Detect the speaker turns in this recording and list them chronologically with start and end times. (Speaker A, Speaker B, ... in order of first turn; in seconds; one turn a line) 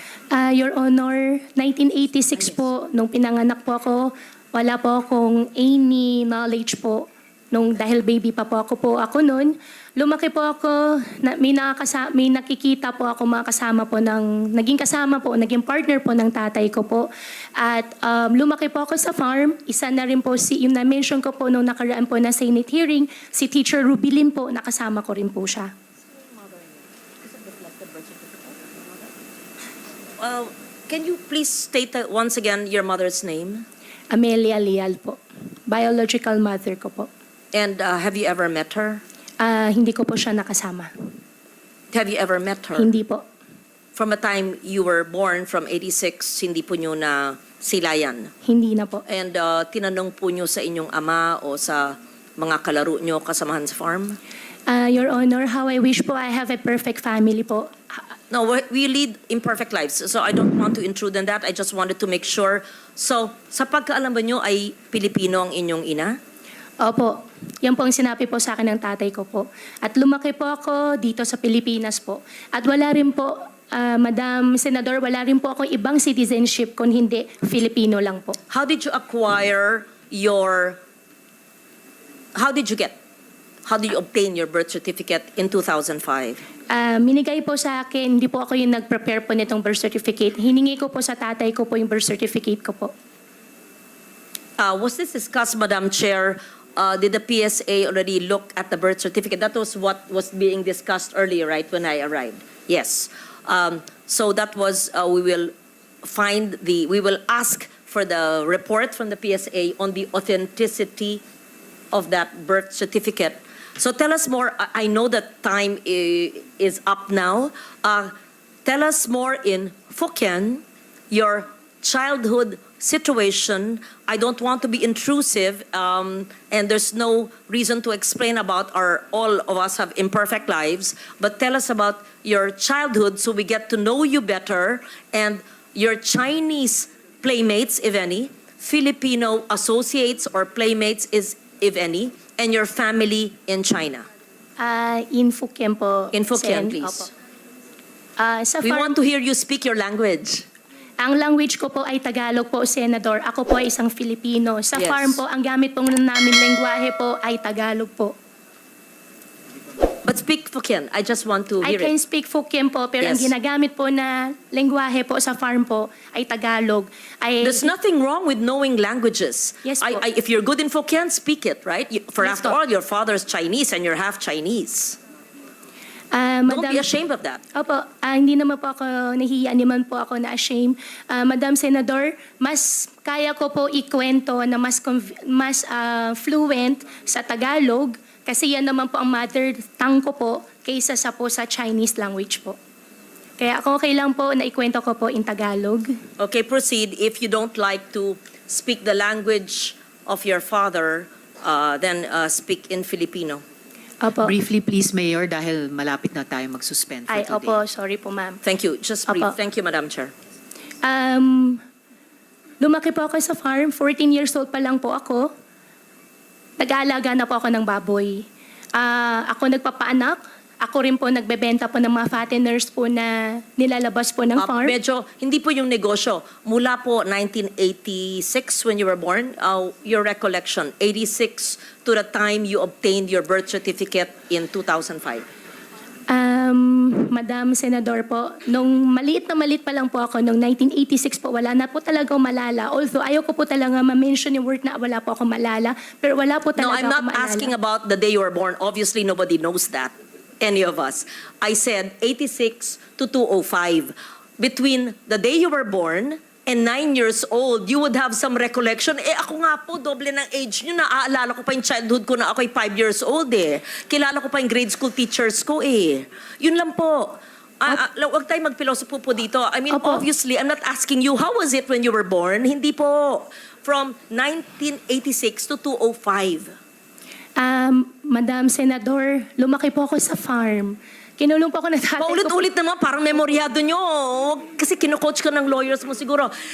Speaker A: 0.3-17.1
Speaker A: 17.6-25.7
Speaker B: 27.3-28.8
Speaker B: 30.2-33.7
Speaker A: 34.1-37.1
Speaker B: 37.5-39.0
Speaker A: 39.4-40.9
Speaker B: 41.9-42.9
Speaker A: 42.8-43.2
Speaker B: 44.0-48.3
Speaker A: 48.4-49.0
Speaker B: 49.1-54.2
Speaker A: 54.7-58.0
Speaker B: 58.3-66.2
Speaker A: 66.8-78.4
Speaker B: 78.5-80.8
Speaker B: 82.4-83.0
Speaker B: 83.7-86.4
Speaker A: 86.7-92.9
Speaker B: 94.6-105.5
Speaker B: 106.0-111.2
Speaker B: 111.9-118.1
Speaker B: 118.7-144.1
Speaker A: 144.6-147.1
Speaker B: 146.1-147.1
Speaker A: 148.2-149.0
Speaker B: 148.6-150.5
Speaker A: 151.0-158.2
Speaker B: 154.8-155.2
Speaker B: 160.0-161.9
Speaker A: 161.6-167.7
Speaker B: 163.0-163.3
Speaker B: 167.4-175.0
Speaker A: 169.7-170.0
Speaker A: 172.2-172.6
Speaker A: 176.1-176.8
Speaker B: 176.5-177.4
Speaker A: 177.6-192.6
Speaker A: 193.4-195.9
Speaker B: 196.2-203.4
Speaker A: 204.0-204.3
Speaker C: 204.2-207.6
Speaker A: 207.1-208.4
Speaker B: 208.4-210.1
Speaker A: 209.1-209.3
Speaker A: 210.8-211.6
Speaker A: 212.6-215.3
Speaker A: 216.6-218.2
Speaker A: 218.8-224.8
Speaker B: 224.4-235.2
Speaker A: 236.1-247.5
Speaker B: 246.6-276.5
Speaker A: 269.7-270.0
Speaker A: 277.4-282.4
Speaker B: 282.0-286.3